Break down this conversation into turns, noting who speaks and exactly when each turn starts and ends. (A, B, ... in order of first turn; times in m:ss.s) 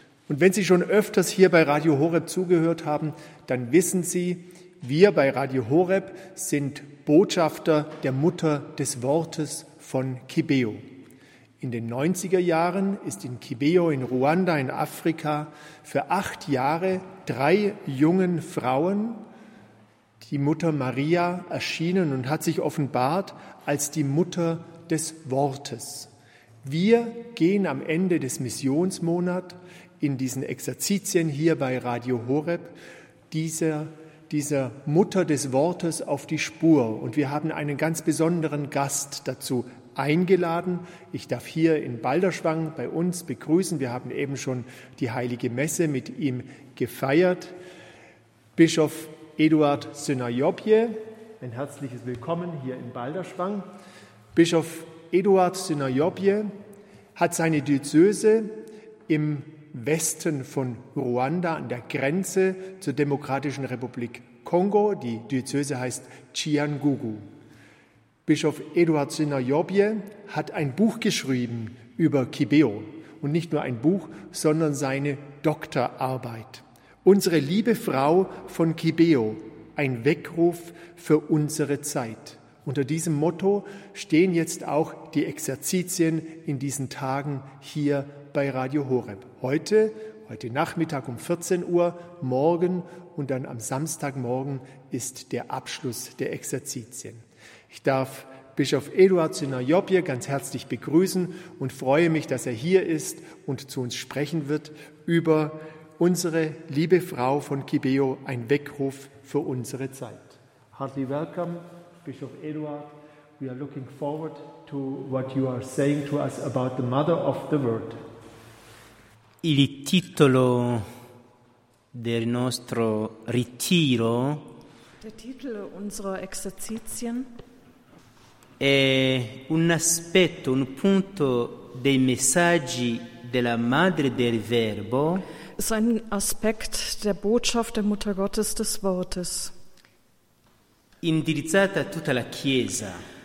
0:00.3-0:10.8 A
0:11.6-0:19.2 A
0:20.2-0:26.1 A
0:26.6-0:32.8 A
0:33.3-0:47.5 A
0:48.6-0:53.6 A
0:54.3-0:56.5 A
0:57.2-1:07.2 A
1:08.2-1:58.0 A
1:59.4-2:00.9 B
2:01.9-2:04.5 B
2:05.0-2:07.3 C
2:08.6-2:15.2 B
2:15.6-2:19.5 C
2:21.0-2:23.0 B